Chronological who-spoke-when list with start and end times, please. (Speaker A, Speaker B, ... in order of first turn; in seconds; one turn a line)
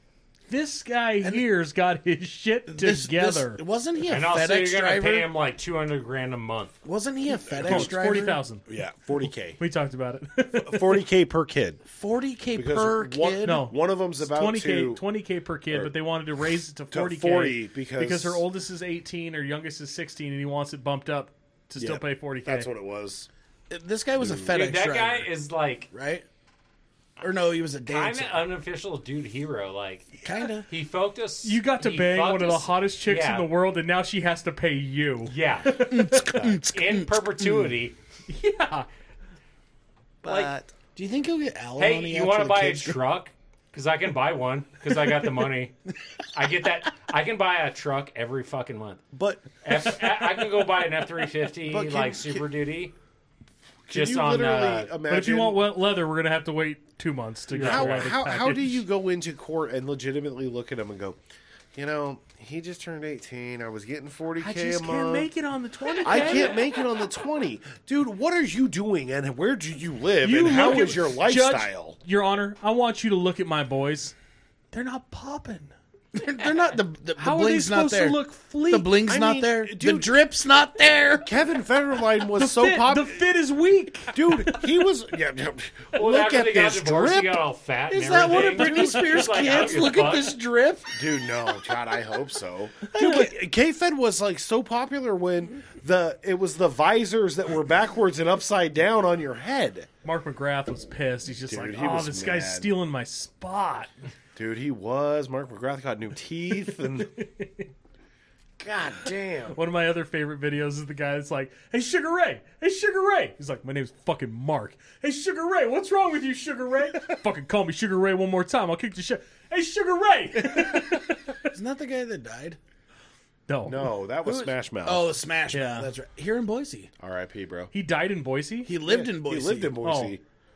Speaker A: 0.5-3.6
Speaker B: 2.7-5.3
Speaker C: 4.0-6.8
Speaker B: 6.8-8.4
Speaker D: 7.4-8.1
Speaker A: 7.6-8.6
Speaker D: 8.7-9.6
Speaker A: 9.6-11.0
Speaker D: 10.6-11.8
Speaker B: 11.9-13.7
Speaker D: 12.5-15.0
Speaker A: 13.4-22.7
Speaker D: 16.9-18.4
Speaker D: 21.8-23.3
Speaker B: 23.7-25.3
Speaker D: 24.2-24.5
Speaker C: 24.5-25.9
Speaker B: 25.9-26.2
Speaker B: 27.2-28.4
Speaker C: 27.9-33.5
Speaker B: 30.2-30.7
Speaker A: 31.4-36.3
Speaker C: 35.2-38.0
Speaker B: 35.8-37.7
Speaker A: 38.3-38.9
Speaker D: 40.2-40.7
Speaker C: 40.2-40.5
Speaker B: 40.9-43.0
Speaker C: 41.8-45.8
Speaker C: 46.3-49.0
Speaker D: 49.1-49.8
Speaker C: 49.6-52.9
Speaker D: 51.6-52.4
Speaker D: 53.9-55.6
Speaker C: 53.9-54.9
Speaker A: 55.1-58.8
Speaker C: 57.5-58.1
Speaker D: 57.5-61.2
Speaker D: 61.7-65.3
Speaker A: 64.4-66.7
Speaker D: 66.0-72.0
Speaker A: 70.2-74.1
Speaker A: 74.7-75.7
Speaker B: 76.1-81.3
Speaker A: 77.2-78.9
Speaker D: 79.0-80.2
Speaker D: 81.2-83.2
Speaker A: 82.3-84.6
Speaker D: 84.1-87.4
Speaker C: 85.9-90.4
Speaker B: 87.9-91.0
Speaker D: 88.2-89.1
Speaker D: 90.9-99.9
Speaker B: 93.0-93.3
Speaker A: 93.0-93.3
Speaker A: 100.0-103.9
Speaker D: 101.5-102.7
Speaker D: 104.3-107.1
Speaker A: 106.7-107.7
Speaker D: 108.6-109.6
Speaker A: 109.5-121.4
Speaker B: 121.5-122.6
Speaker A: 123.5-123.9
Speaker D: 123.6-125.2
Speaker B: 124.2-126.9
Speaker A: 125.5-125.9
Speaker D: 127.0-127.7
Speaker A: 127.7-128.7
Speaker B: 128.7-129.8
Speaker D: 128.8-130.2
Speaker A: 129.8-130.2